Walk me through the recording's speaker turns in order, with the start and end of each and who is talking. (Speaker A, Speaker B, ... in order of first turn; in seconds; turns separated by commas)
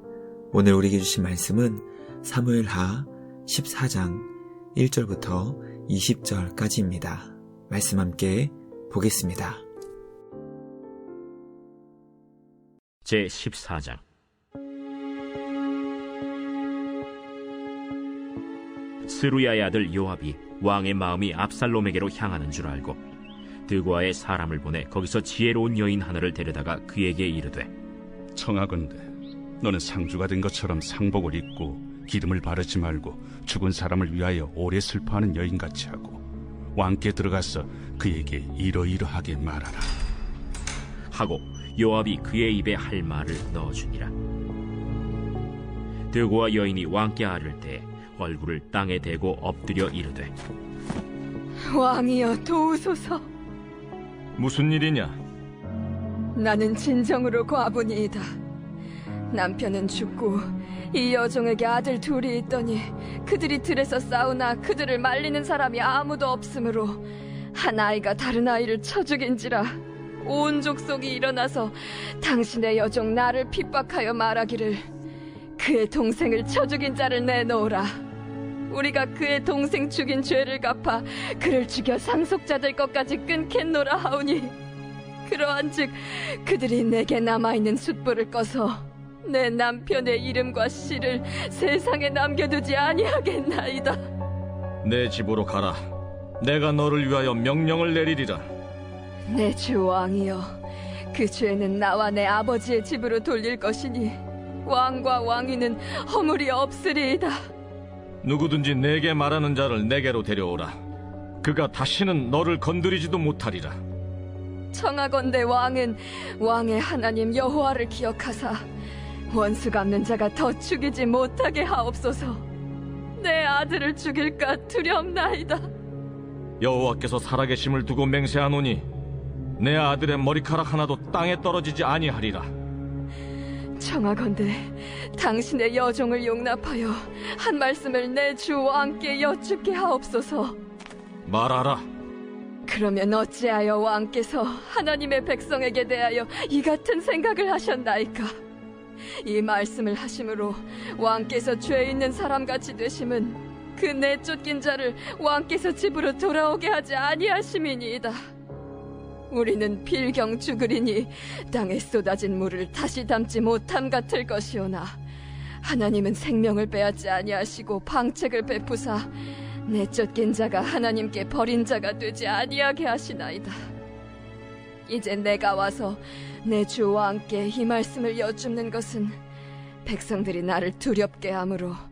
Speaker A: 0.5-9.7, Speaker B: 13.1-14.0, Speaker B: 19.1-23.0, Speaker B: 23.7-27.7, Speaker C: 28.4-29.1, Speaker C: 29.6-36.2, Speaker C: 36.8-39.9, Speaker B: 41.1-44.1, Speaker B: 46.1-50.3, Speaker D: 51.6-53.2, Speaker E: 54.4-55.2, Speaker D: 56.4-58.2, Speaker D: 59.3-67.0, Speaker D: 67.5-74.9, Speaker D: 75.6-78.0, Speaker D: 78.7-84.5, Speaker D: 85.3-94.0, Speaker E: 94.8-95.8, Speaker E: 96.4-98.5, Speaker D: 99.3-100.6, Speaker D: 101.1-107.4, Speaker E: 108.2-110.8, Speaker E: 111.4-113.8, Speaker D: 114.7-118.6, Speaker D: 119.3-122.5, Speaker D: 123.2-125.7, Speaker E: 126.6-128.9, Speaker E: 129.6-132.5, Speaker D: 133.8-140.6, Speaker E: 141.3-141.8, Speaker D: 142.7-148.3, Speaker D: 149.2-158.2, Speaker D: 159.3-165.0, Speaker D: 165.6-169.1, Speaker D: 169.7-173.6, Speaker D: 174.9-179.2, Speaker D: 179.8-181.8